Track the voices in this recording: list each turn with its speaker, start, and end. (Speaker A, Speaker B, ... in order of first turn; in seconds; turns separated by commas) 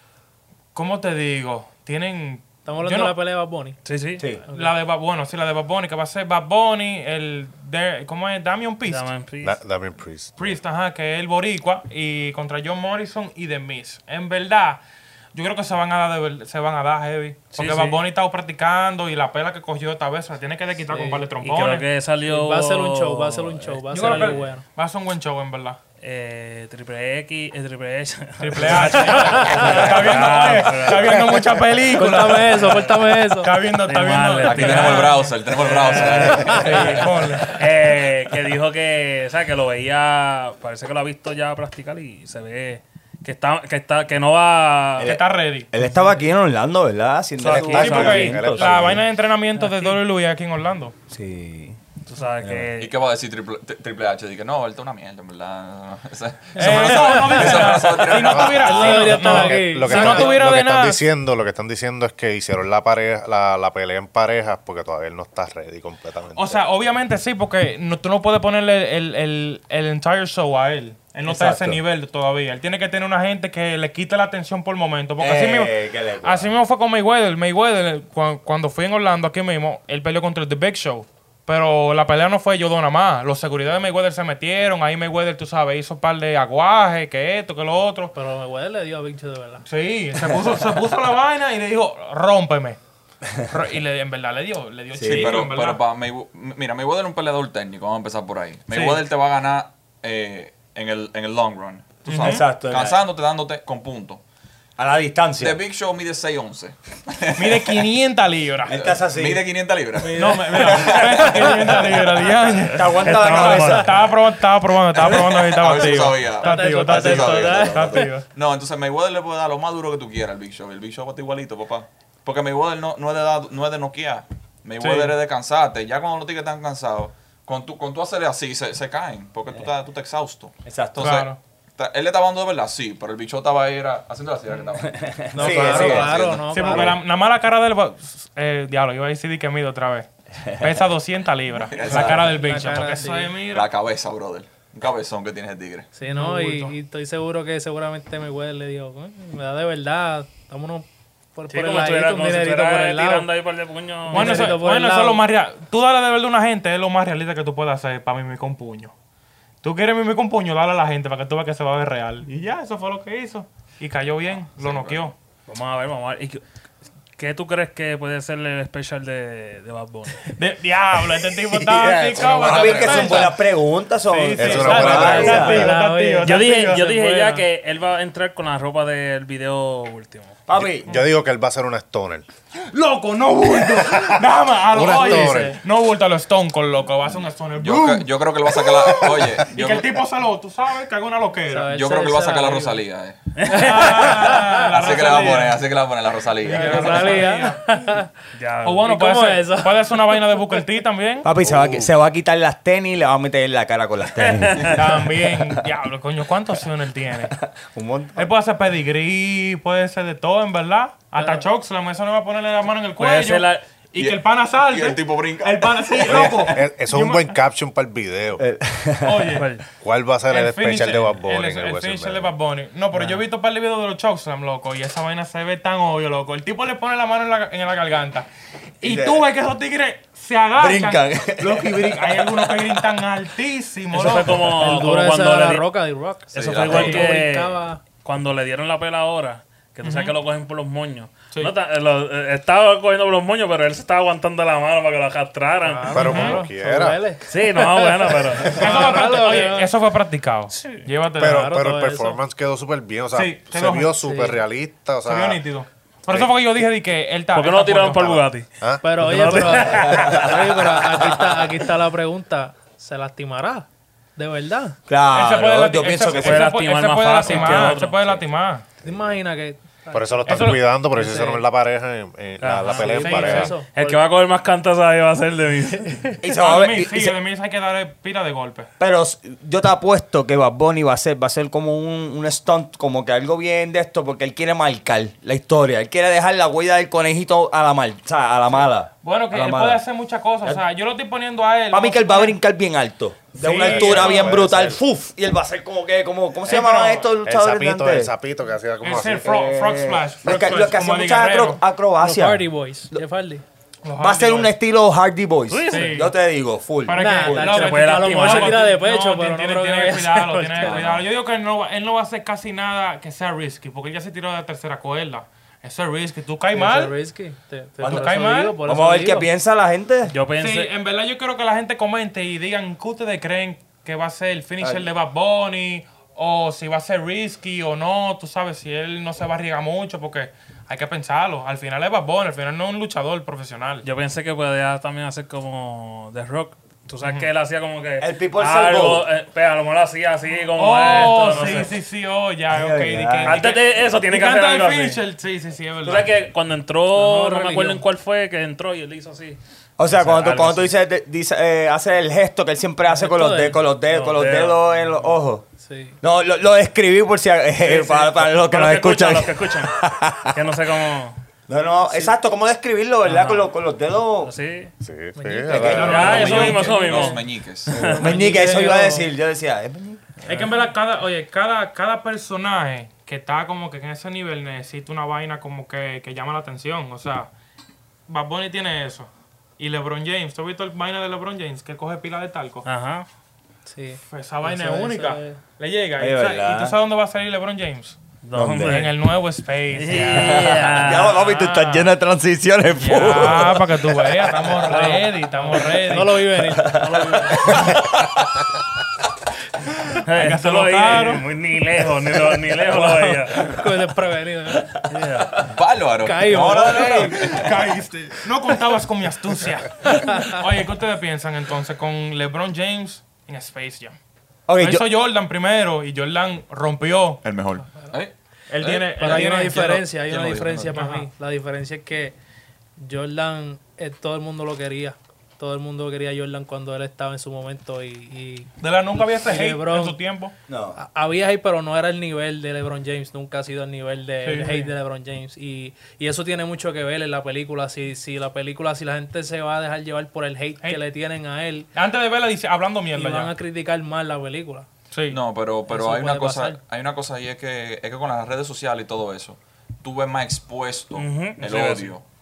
Speaker A: 0.8-3.1, Speaker B: 2.6-3.8, Speaker C: 3.8-4.2, Speaker A: 4.5-9.1, Speaker C: 8.8-9.6, Speaker D: 9.4-10.5, Speaker A: 10.4-14.8, Speaker A: 15.3-21.9, Speaker C: 17.5-18.0, Speaker B: 20.9-21.3, Speaker C: 21.4-24.4, Speaker B: 22.2-24.6, Speaker A: 23.9-25.8, Speaker C: 26.0-31.5, Speaker A: 28.4-32.8, Speaker B: 29.0-29.9, Speaker B: 31.9-33.5, Speaker C: 32.5-33.0, Speaker A: 33.4-35.3, Speaker C: 33.8-45.1, Speaker E: 34.4-37.1, Speaker A: 36.5-37.6, Speaker B: 36.5-37.0, Speaker F: 45.0-49.0, Speaker A: 45.0-45.7, Speaker C: 47.4-48.4, Speaker D: 47.4-49.0, Speaker A: 47.7-50.9, Speaker F: 51.1-51.8, Speaker C: 52.0-52.9, Speaker F: 52.4-52.7, Speaker E: 52.8-59.1, Speaker A: 56.5-61.0, Speaker B: 56.6-60.4, Speaker D: 58.3-66.6, Speaker A: 66.3-88.1, Speaker F: 71.3-71.8, Speaker F: 75.2-76.5, Speaker B: 88.1-89.6, Speaker A: 89.6-92.8, Speaker A: 93.4-95.8, Speaker F: 94.9-95.5, Speaker E: 95.0-104.2, Speaker A: 98.7-99.0, Speaker A: 102.0-102.4, Speaker F: 102.1-103.0, Speaker F: 104.8-105.6, Speaker E: 105.4-107.8, Speaker A: 107.3-108.8, Speaker F: 108.7-109.4, Speaker E: 108.7-111.8, Speaker A: 110.1-118.2, Speaker F: 112.7-113.9, Speaker C: 112.8-113.9, Speaker E: 115.0-136.5, Speaker B: 115.8-118.1, Speaker A: 124.8-125.2, Speaker F: 130.7-131.2, Speaker A: 131.0-131.4, Speaker F: 134.8-136.9, Speaker B: 135.3-137.0, Speaker A: 136.5-143.7, Speaker F: 140.4-140.8, Speaker E: 141.7-142.3, Speaker F: 141.8-142.3, Speaker B: 141.9-143.3, Speaker E: 143.5-145.9, Speaker B: 145.9-153.3, Speaker A: 146.1-146.8, Speaker C: 151.5-154.6, Speaker B: 154.1-155.2, Speaker A: 154.1-158.9, Speaker A: 159.6-165.1, Speaker E: 164.6-165.0, Speaker C: 165.5-166.4, Speaker C: 167.2-170.3, Speaker A: 170.3-173.4, Speaker F: 171.4-175.7, Speaker E: 172.2-173.3, Speaker A: 174.1-177.0, Speaker D: 174.4-175.7, Speaker B: 174.7-177.4, Speaker C: 176.2-180.4, Speaker F: 180.5-180.9, Speaker D: 180.6-182.2, Speaker A: 182.7-191.7, Speaker D: 183.8-184.1, Speaker D: 184.7-185.6, Speaker B: 184.8-185.6, Speaker E: 187.6-189.9, Speaker B: 191.4-192.8, Speaker E: 191.7-197.2, Speaker C: 193.3-193.9, Speaker A: 193.5-195.6, Speaker B: 193.5-194.7, Speaker B: 196.4-198.1, Speaker A: 196.4-197.6, Speaker C: 198.3-198.9, Speaker A: 198.6-201.3, Speaker B: 198.8-200.6, Speaker F: 201.2-205.5, Speaker D: 201.4-201.9, Speaker C: 204.2-204.8, Speaker A: 204.7-207.3, Speaker F: 207.4-208.3, Speaker A: 208.2-217.3, Speaker B: 211.2-211.4, Speaker C: 213.0-213.6, Speaker E: 213.9-216.5, Speaker D: 216.1-218.4, Speaker F: 218.4-219.4, Speaker A: 219.0-219.5, Speaker C: 219.4-219.6, Speaker D: 219.8-222.3, Speaker A: 220.3-228.3, Speaker A: 228.8-234.5, Speaker F: 228.8-229.2, Speaker F: 230.6-232.8, Speaker C: 233.9-235.7, Speaker B: 234.5-237.8, Speaker E: 236.3-237.1, Speaker C: 236.3-246.3, Speaker A: 236.7-237.1, Speaker A: 239.8-240.1, Speaker B: 245.6-249.7, Speaker D: 245.9-247.0, Speaker A: 246.0-246.4, Speaker C: 247.3-249.0, Speaker A: 248.5-251.5, Speaker D: 251.2-255.4, Speaker B: 251.2-252.2, Speaker A: 253.1-254.0, Speaker B: 254.0-254.4, Speaker A: 255.0-258.2, Speaker C: 257.3-260.3, Speaker D: 258.6-259.4, Speaker B: 258.8-264.8, Speaker F: 259.8-261.5, Speaker F: 264.9-266.5, Speaker A: 265.1-268.6, Speaker C: 266.0-268.2, Speaker B: 268.8-271.4, Speaker D: 269.9-273.6, Speaker A: 270.2-270.6, Speaker C: 272.4-276.2, Speaker B: 272.6-274.0, Speaker F: 276.2-277.1, Speaker A: 276.2-278.7, Speaker F: 278.8-289.8, Speaker A: 289.0-292.4, Speaker F: 291.7-298.1, Speaker A: 293.4-294.4, Speaker D: 293.5-294.8, Speaker A: 296.4-297.1, Speaker D: 297.2-299.3, Speaker A: 298.8-301.6, Speaker F: 298.9-303.0, Speaker B: 302.0-303.4, Speaker A: 303.8-304.5, Speaker F: 304.0-307.6, Speaker C: 305.5-306.1, Speaker A: 305.7-306.1, Speaker A: 306.8-316.9, Speaker B: 306.9-310.8, Speaker C: 307.5-308.6, Speaker E: 310.6-311.0, Speaker B: 316.5-319.3, Speaker F: 317.8-320.1, Speaker A: 317.8-318.6, Speaker C: 320.1-320.7, Speaker A: 320.4-333.9, Speaker F: 324.6-324.9, Speaker C: 333.8-341.8, Speaker A: 337.0-337.3, Speaker F: 338.0-339.1, Speaker A: 340.6-346.1, Speaker F: 342.5-343.5, Speaker C: 343.2-345.0, Speaker C: 345.8-350.7, Speaker B: 346.9-347.8, Speaker F: 349.8-355.5, Speaker B: 352.9-353.6, Speaker C: 353.9-355.1, Speaker B: 355.5-356.0, Speaker F: 356.0-360.5, Speaker C: 357.6-359.8, Speaker C: 360.3-361.2, Speaker F: 361.5-364.3, Speaker C: 363.1-363.4, Speaker C: 364.2-364.7, Speaker D: 364.8-366.2, Speaker B: 365.1-367.2, Speaker F: 365.5-366.5, Speaker A: 365.7-366.9, Speaker C: 365.8-368.2, Speaker E: 366.2-367.8, Speaker F: 367.7-370.2, Speaker B: 367.8-369.1, Speaker A: 370.2-377.3, Speaker C: 370.2-370.5, Speaker A: 378.1-382.7, Speaker C: 382.6-383.1, Speaker B: 383.7-385.4, Speaker A: 384.1-388.0, Speaker F: 386.0-386.8, Speaker C: 388.2-388.9, Speaker F: 388.3-388.8, Speaker A: 388.6-391.9, Speaker C: 389.7-391.2, Speaker F: 389.9-394.6, Speaker A: 392.8-396.2, Speaker B: 394.7-397.7, Speaker F: 396.5-397.9, Speaker C: 400.1-403.5, Speaker A: 400.1-401.2, Speaker B: 402.7-404.8, Speaker C: 404.9-405.4, Speaker E: 405.4-407.5, Speaker B: 406.0-407.4, Speaker A: 406.6-414.0, Speaker B: 409.9-410.3, Speaker F: 414.5-414.8, Speaker A: 414.6-417.2, Speaker E: 417.2-420.8, Speaker A: 418.5-419.8, Speaker B: 419.0-422.1, Speaker A: 420.7-421.1, Speaker B: 422.8-428.5, Speaker A: 428.6-430.3, Speaker B: 429.2-430.0, Speaker F: 430.5-430.8, Speaker B: 430.8-441.7, Speaker A: 434.2-434.7, Speaker A: 441.7-443.3, Speaker B: 442.9-444.7, Speaker A: 444.9-445.2, Speaker E: 445.1-452.0, Speaker B: 445.7-446.6, Speaker C: 451.0-451.9